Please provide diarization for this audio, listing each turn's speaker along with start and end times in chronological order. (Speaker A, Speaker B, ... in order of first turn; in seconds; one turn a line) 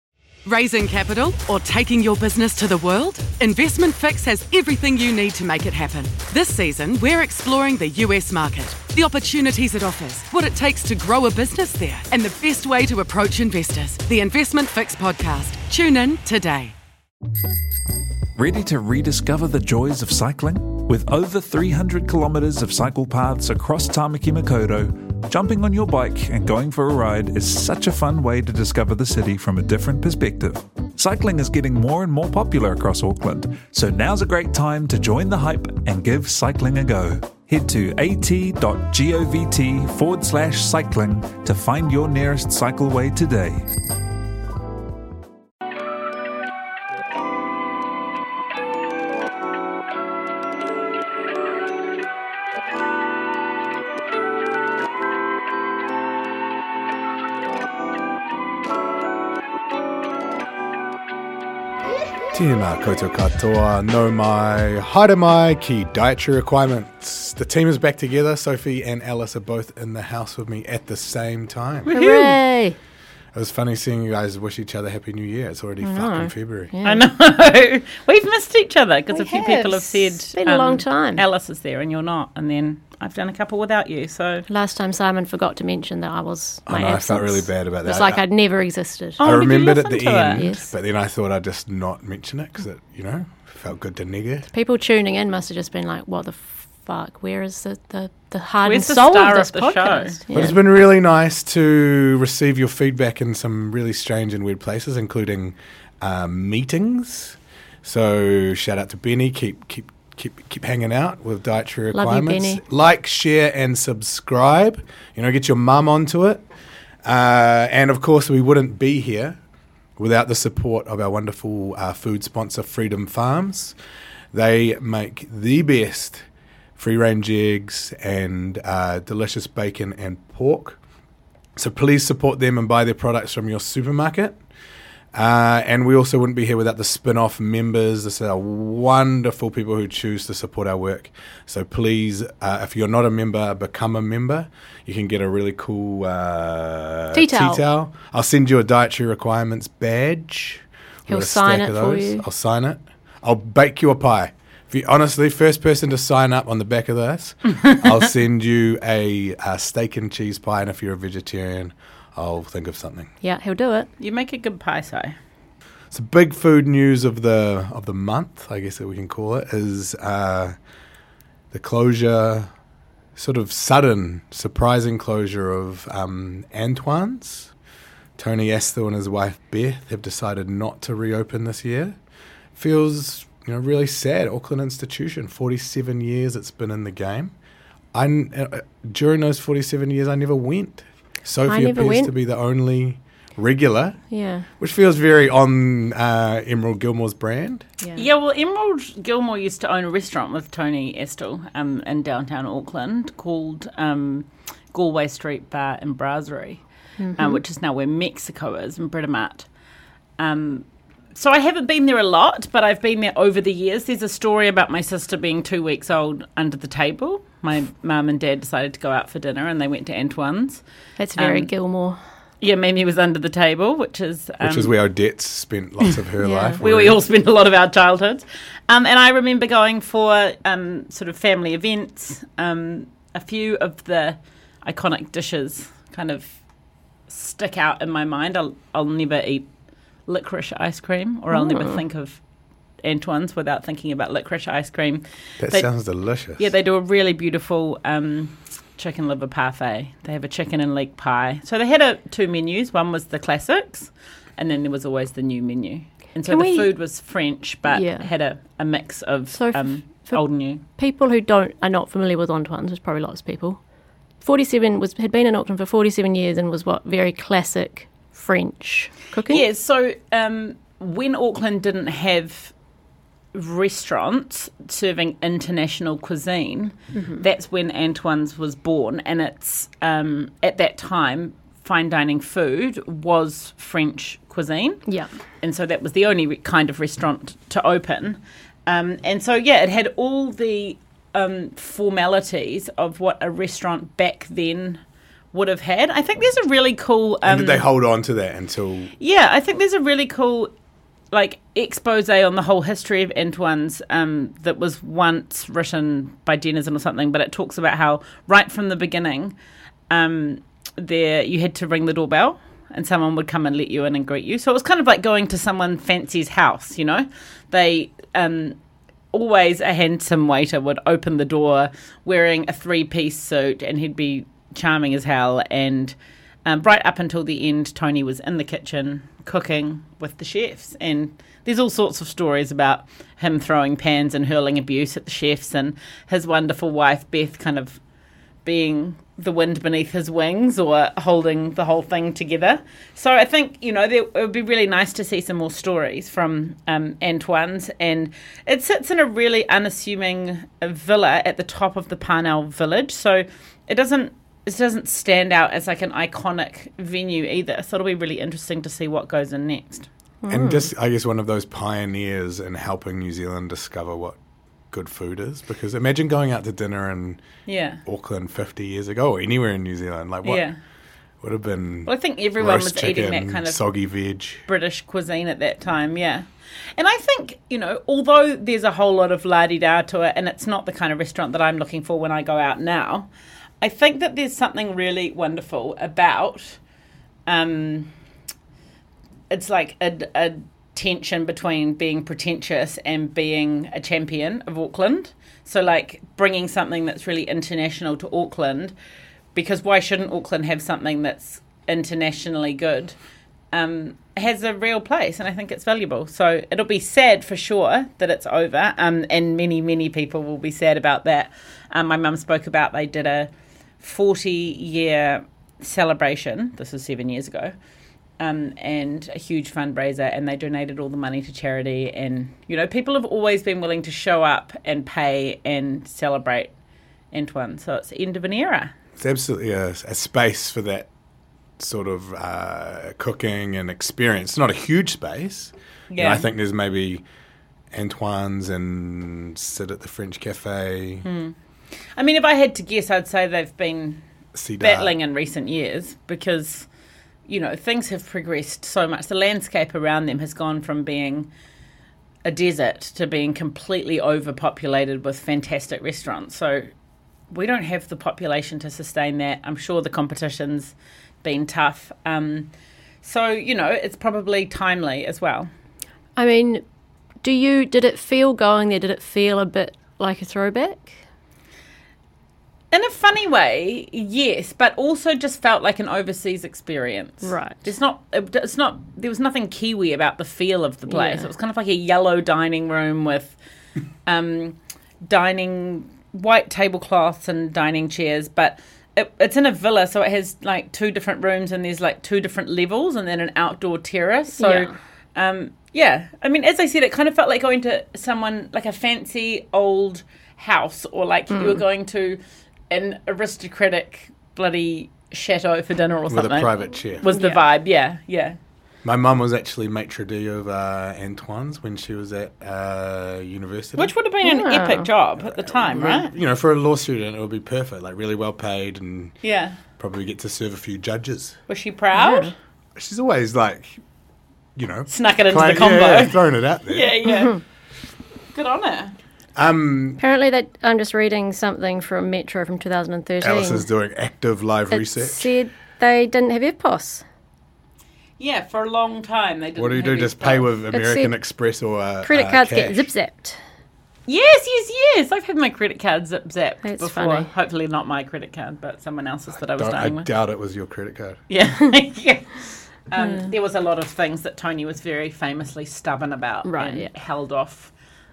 Speaker A: 0.4-16.7
Speaker B: 18.3-43.7
Speaker C: 62.3-71.9
Speaker D: 71.9-72.8
Speaker E: 71.9-72.4
Speaker C: 73.3-76.7
Speaker D: 75.8-77.0
Speaker E: 76.8-84.4
Speaker D: 79.1-81.2
Speaker D: 84.5-89.2
Speaker C: 86.7-88.2
Speaker E: 89.2-90.5
Speaker C: 89.2-94.5
Speaker D: 90.3-90.7
Speaker D: 94.5-100.6
Speaker E: 98.6-100.2
Speaker C: 100.3-116.4
Speaker D: 111.9-112.6
Speaker C: 117.0-119.4
Speaker C: 120.0-123.8
Speaker C: 124.3-126.2
Speaker C: 126.8-130.8
Speaker C: 131.6-134.4
Speaker C: 135.1-163.1
Speaker D: 147.1-147.6
Speaker D: 151.1-152.2
Speaker D: 163.2-163.9
Speaker E: 164.0-165.1
Speaker C: 165.9-170.6
Speaker C: 171.5-172.5
Speaker C: 173.2-177.5
Speaker C: 178.2-181.9
Speaker C: 182.6-187.3
Speaker C: 187.9-194.0
Speaker D: 191.5-192.1
Speaker D: 194.1-194.5
Speaker C: 194.6-197.7
Speaker D: 197.8-198.1
Speaker E: 197.9-206.6
Speaker D: 207.0-207.4
Speaker E: 207.2-209.4
Speaker E: 210.2-220.6
Speaker D: 221.0-222.0
Speaker E: 221.1-221.5
Speaker E: 222.4-224.7
Speaker C: 224.4-227.0
Speaker D: 226.2-226.6
Speaker E: 226.6-236.4
Speaker E: 237.1-239.5
Speaker E: 240.1-242.2
Speaker D: 241.3-241.8
Speaker E: 242.8-245.7
Speaker C: 245.4-246.4
Speaker E: 246.4-260.6
Speaker D: 256.2-256.7
Speaker D: 257.7-258.1
Speaker D: 259.3-263.6
Speaker D: 264.2-269.4
Speaker E: 269.3-272.5
Speaker E: 273.3-284.8
Speaker D: 276.9-277.2
Speaker E: 285.4-294.8
Speaker E: 295.3-297.6
Speaker C: 297.2-298.9
Speaker E: 299.0-300.5
Speaker E: 301.1-309.4
Speaker E: 309.9-318.6
Speaker E: 319.1-337.8
Speaker E: 338.4-359.9
Speaker D: 360.2-360.7
Speaker C: 360.3-364.2
Speaker C: 364.7-367.2
Speaker E: 367.5-367.8
Speaker C: 367.8-370.4
Speaker E: 370.2-370.6
Speaker C: 371.2-374.4
Speaker E: 371.9-373.6
Speaker E: 374.5-376.2
Speaker E: 376.8-383.1
Speaker E: 383.6-386.6
Speaker E: 387.3-387.9
Speaker E: 389.3-398.7
Speaker E: 399.3-402.9
Speaker E: 403.5-413.3
Speaker E: 413.8-417.5
Speaker E: 418.2-426.5
Speaker E: 427.1-428.7
Speaker C: 429.0-430.9
Speaker C: 431.6-437.0
Speaker E: 435.9-436.3
Speaker C: 437.7-441.0
Speaker E: 441.0-441.3
Speaker E: 441.9-444.0
Speaker C: 444.3-444.9
Speaker E: 444.6-446.7
Speaker E: 447.3-451.3
Speaker E: 452.2-456.7
Speaker E: 457.3-462.5
Speaker E: 463.0-465.5
Speaker D: 466.1-466.6
Speaker D: 467.2-471.0
Speaker E: 472.7-483.4
Speaker D: 477.2-477.6
Speaker D: 480.9-481.3
Speaker E: 484.1-502.2
Speaker D: 494.4-494.7
Speaker D: 501.3-501.6
Speaker E: 502.7-508.4
Speaker C: 506.1-507.1
Speaker D: 507.1-507.4
Speaker C: 508.8-513.9
Speaker E: 513.8-516.1
Speaker D: 514.2-514.9
Speaker C: 515.2-519.1
Speaker E: 519.2-519.6
Speaker C: 519.8-521.4
Speaker E: 521.5-522.3
Speaker D: 521.9-522.3
Speaker C: 522.8-523.8
Speaker C: 524.5-527.0
Speaker E: 524.9-527.4
Speaker E: 528.3-529.0
Speaker C: 529.4-530.0
Speaker D: 530.0-533.6
Speaker C: 533.2-535.3
Speaker D: 534.7-537.0
Speaker E: 538.2-540.5
Speaker C: 539.5-542.9
Speaker D: 540.7-541.1
Speaker D: 542.0-543.4
Speaker E: 544.1-550.1
Speaker D: 546.6-547.3
Speaker C: 549.5-551.2
Speaker E: 551.3-557.7
Speaker D: 553.0-553.3
Speaker D: 556.4-556.9